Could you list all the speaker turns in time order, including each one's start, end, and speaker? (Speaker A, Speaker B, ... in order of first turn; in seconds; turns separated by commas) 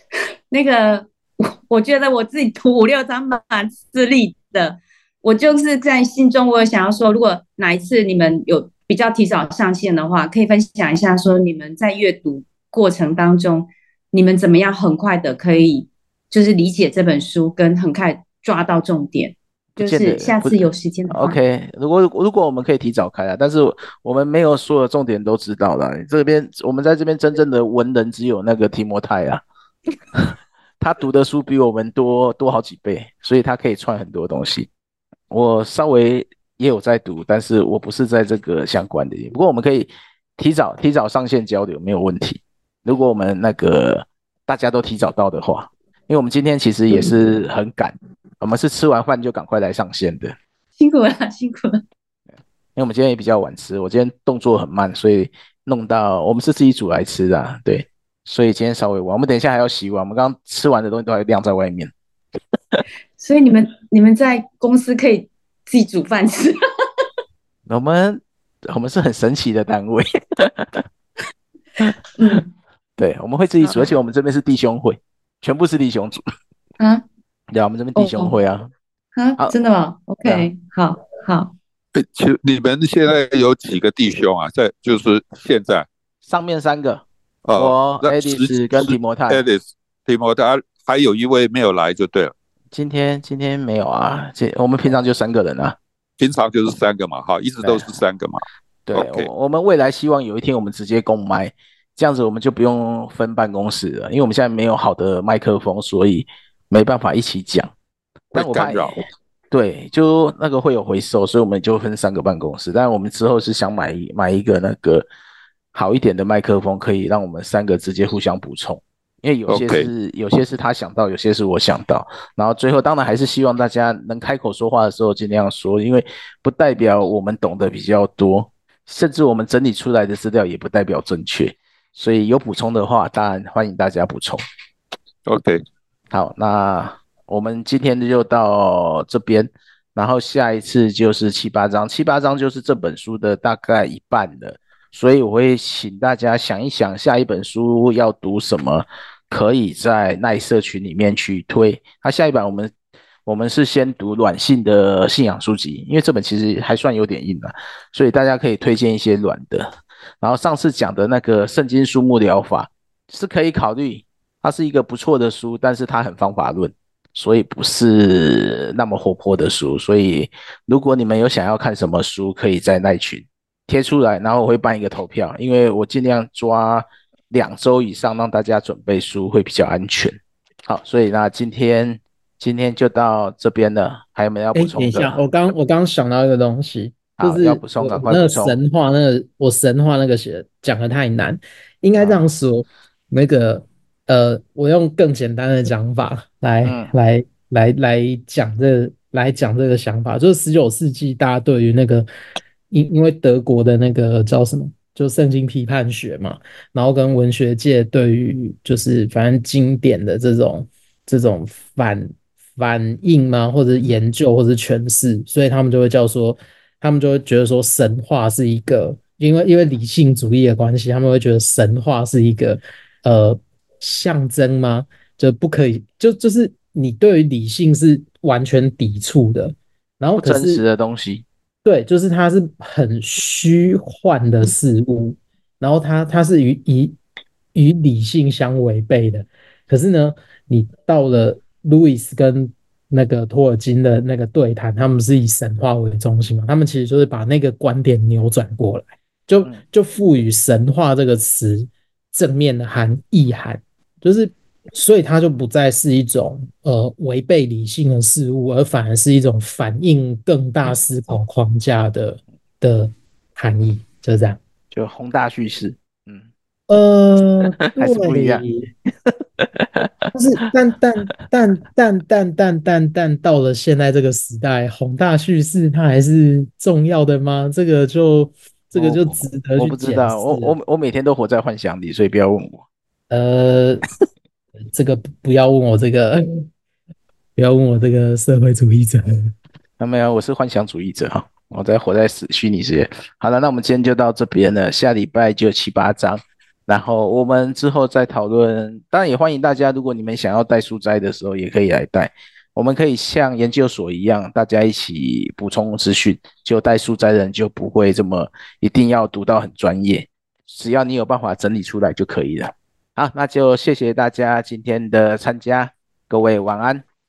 Speaker A: 0.5-21.4, Speaker B: 19.8-29.4, Speaker B: 30.1-34.7, Speaker B: 35.3-50.4, Speaker A: 50.8-51.8, Speaker B: 52.8-61.9, Speaker A: 63.2-67.0, Speaker B: 67.7-70.8, Speaker B: 71.8-72.4, Speaker A: 72.2-72.5, Speaker B: 73.0-76.2, Speaker A: 73.6-73.9, Speaker B: 77.5-78.7, Speaker A: 78.0-78.4, Speaker A: 79.1-81.5, Speaker B: 80.2-80.5, Speaker C: 81.9-85.8, Speaker B: 86.2-89.4, Speaker C: 87.4-92.3, Speaker B: 92.7-95.8, Speaker C: 96.2-99.3, Speaker B: 97.6-97.9, Speaker B: 98.8-107.7, Speaker C: 108.3-109.0, Speaker B: 108.3-109.0, Speaker B: 109.5-115.1, Speaker B: 115.7-134.4, Speaker C: 119.5-119.9, Speaker C: 135.2-135.6, Speaker B: 136.1-152.7, Speaker B: 153.2-185.2, Speaker D: 184.5-202.1, Speaker B: 187.2-188.6, Speaker B: 192.0-192.2, Speaker B: 196.6-196.9, Speaker D: 202.7-230.6, Speaker B: 230.2-231.2, Speaker D: 231.6-237.0, Speaker D: 237.5-264.4, Speaker B: 264.7-266.3, Speaker D: 266.7-268.7, Speaker B: 267.6-268.4, Speaker B: 269.1-270.1, Speaker D: 270.1-280.5, Speaker B: 278.7-282.6, Speaker D: 283.1-283.8, Speaker D: 284.7-286.4, Speaker D: 287.4-289.3, Speaker B: 289.8-316.8